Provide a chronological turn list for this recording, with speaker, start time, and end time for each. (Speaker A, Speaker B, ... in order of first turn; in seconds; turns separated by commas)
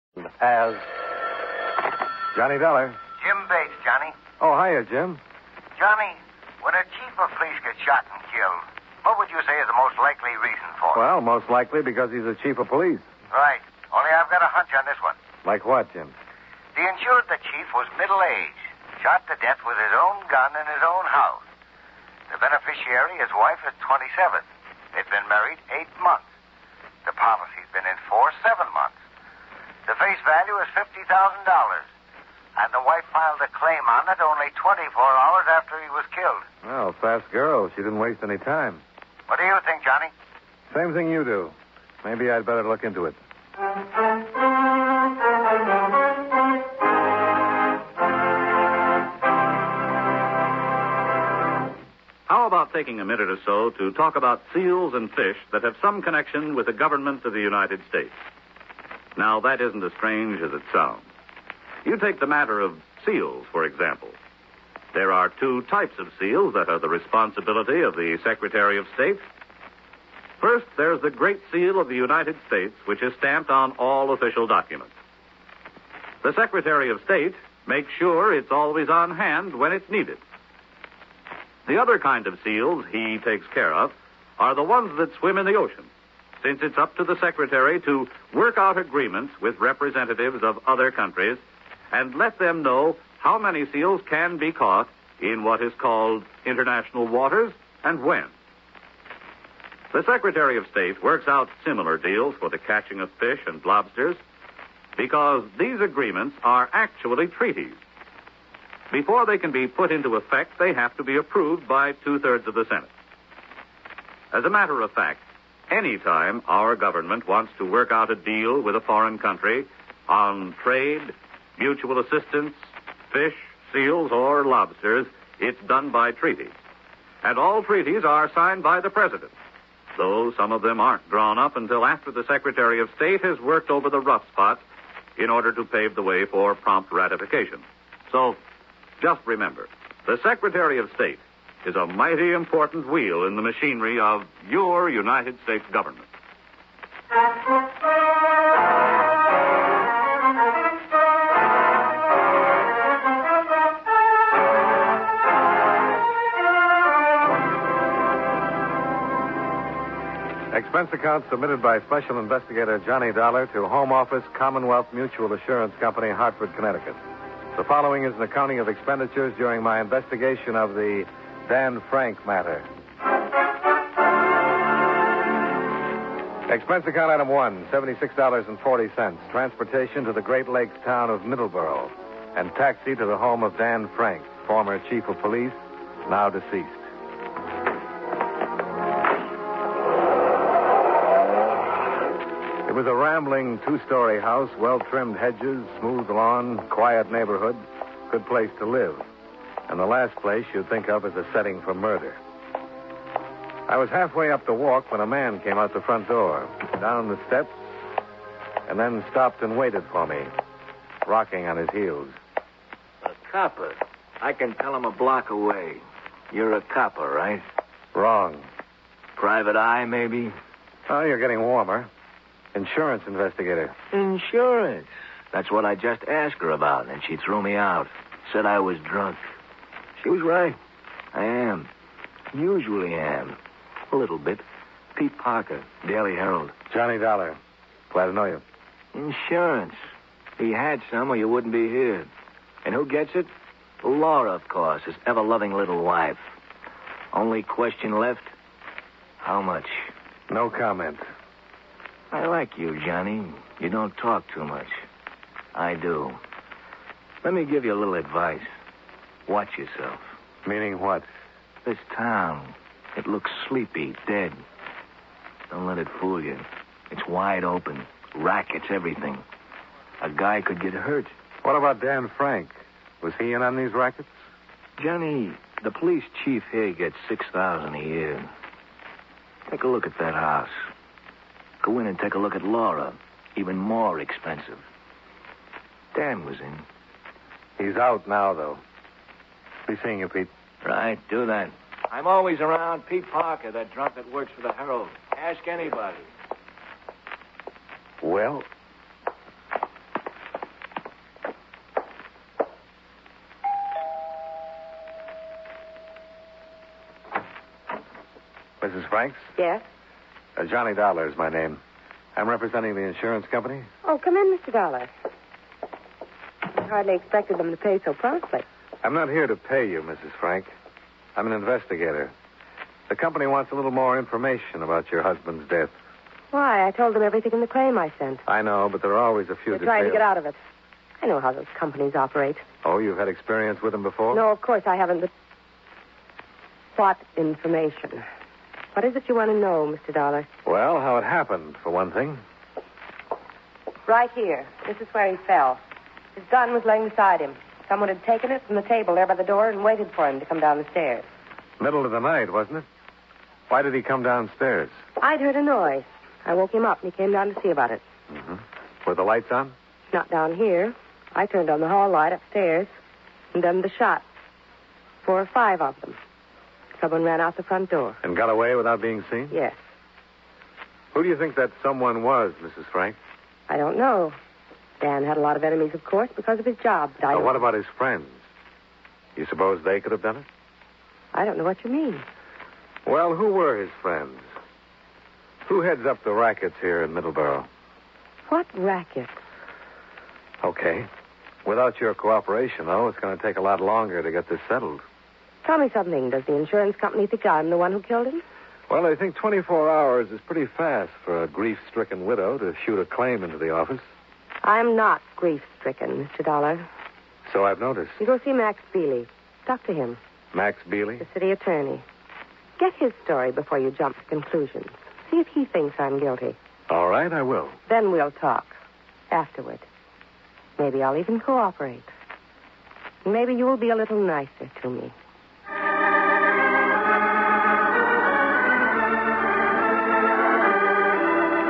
Speaker A: 0.2-0.8, Speaker A: 2.3-3.0, Speaker B: 3.2-4.1, Speaker A: 4.4-5.2, Speaker B: 5.8-11.0, Speaker A: 10.9-13.1, Speaker B: 13.3-15.2, Speaker A: 15.4-16.1, Speaker B: 16.7-21.4, Speaker B: 22.3-24.4, Speaker B: 24.9-26.2, Speaker B: 27.0-28.9, Speaker B: 29.9-31.8, Speaker B: 32.6-36.4, Speaker A: 36.6-38.8, Speaker B: 39.3-40.1, Speaker A: 40.7-43.2, Speaker C: 52.3-58.1, Speaker C: 59.1-61.0, Speaker C: 61.8-64.2, Speaker C: 64.9-69.2, Speaker C: 70.4-74.9, Speaker C: 76.2-80.2, Speaker C: 81.7-85.9, Speaker C: 86.4-98.3, Speaker C: 99.9-104.2, Speaker C: 105.0-107.8, Speaker C: 108.9-112.9, Speaker C: 114.3-122.6, Speaker C: 123.1-126.5, Speaker C: 127.2-129.3, Speaker C: 129.9-134.6, Speaker C: 135.2-138.4, Speaker C: 139.0-146.1, Speaker A: 160.5-167.0, Speaker A: 167.5-172.7, Speaker A: 176.5-186.9, Speaker A: 192.7-199.0, Speaker A: 199.7-202.2, Speaker A: 203.7-207.7, Speaker A: 208.7-210.3, Speaker A: 211.0-212.2, Speaker D: 213.0-217.4, Speaker A: 217.9-218.5, Speaker D: 219.2-220.3, Speaker A: 220.9-221.9, Speaker A: 222.5-223.7, Speaker D: 223.9-229.3, Speaker D: 230.0-230.6, Speaker D: 231.1-231.7, Speaker D: 232.3-233.4, Speaker D: 233.9-234.4, Speaker D: 234.9-236.5, Speaker A: 236.7-237.4, Speaker A: 237.9-238.4, Speaker D: 238.9-239.8, Speaker D: 240.4-242.1, Speaker D: 242.6-243.3, Speaker D: 243.8-246.2, Speaker D: 247.1-248.3, Speaker D: 249.2-249.9, Speaker A: 250.3-251.0, Speaker D: 252.1-254.8, Speaker D: 255.5-256.2, Speaker D: 257.2-258.5, Speaker D: 259.3-260.1, Speaker A: 260.4-261.1, Speaker D: 261.6-264.3, Speaker D: 265.5-269.2, Speaker D: 270.0-271.1, Speaker A: 271.4-274.1, Speaker D: 274.8-278.3, Speaker D: 279.5-280.6, Speaker D: 281.6-284.6, Speaker D: 285.9-286.6, Speaker A: 287.6-288.6, Speaker A: 289.7-290.3, Speaker D: 290.6-296.1, Speaker A: 298.0-298.4, Speaker A: 308.6-309.3, Speaker E: 309.4-309.6, Speaker A: 310.4-311.6, Speaker A: 312.1-313.7, Speaker E: 313.8-314.9, Speaker E: 316.6-318.4, Speaker A: 318.8-320.5, Speaker A: 321.1-322.1, Speaker A: 322.9-325.7, Speaker E: 326.3-328.2, Speaker A: 328.2-330.0, Speaker E: 329.5-330.4, Speaker E: 331.0-332.4, Speaker A: 332.6-334.2, Speaker E: 334.1-335.1, Speaker E: 336.7-338.0, Speaker E: 338.7-340.3, Speaker A: 340.4-342.2, Speaker E: 343.9-345.6, Speaker E: 346.1-351.1, Speaker A: 351.6-352.6, Speaker A: 353.5-354.7, Speaker E: 355.0-357.8, Speaker A: 358.1-359.5, Speaker E: 359.9-362.7, Speaker E: 363.3-364.0, Speaker E: 365.0-366.0, Speaker E: 366.8-368.0, Speaker A: 368.0-369.3, Speaker E: 369.3-369.6, Speaker A: 370.9-373.0, Speaker E: 373.5-374.2, Speaker E: 374.8-377.4, Speaker A: 377.1-378.2, Speaker A: 379.1-380.2, Speaker E: 381.1-382.0, Speaker A: 382.8-384.2, Speaker A: 385.4-387.5, Speaker E: 388.3-389.2, Speaker A: 390.4-390.9, Speaker A: 391.4-394.8, Speaker E: 395.4-398.2, Speaker A: 398.7-403.9, Speaker E: 404.4-406.6, Speaker A: 407.2-408.0, Speaker E: 408.0-410.0, Speaker A: 410.3-411.1, Speaker E: 411.0-411.8, Speaker E: 412.6-416.4, Speaker A: 416.7-417.6, Speaker E: 417.7-418.5, Speaker E: 419.1-419.6, Speaker E: 420.6-421.9, Speaker E: 423.0-424.9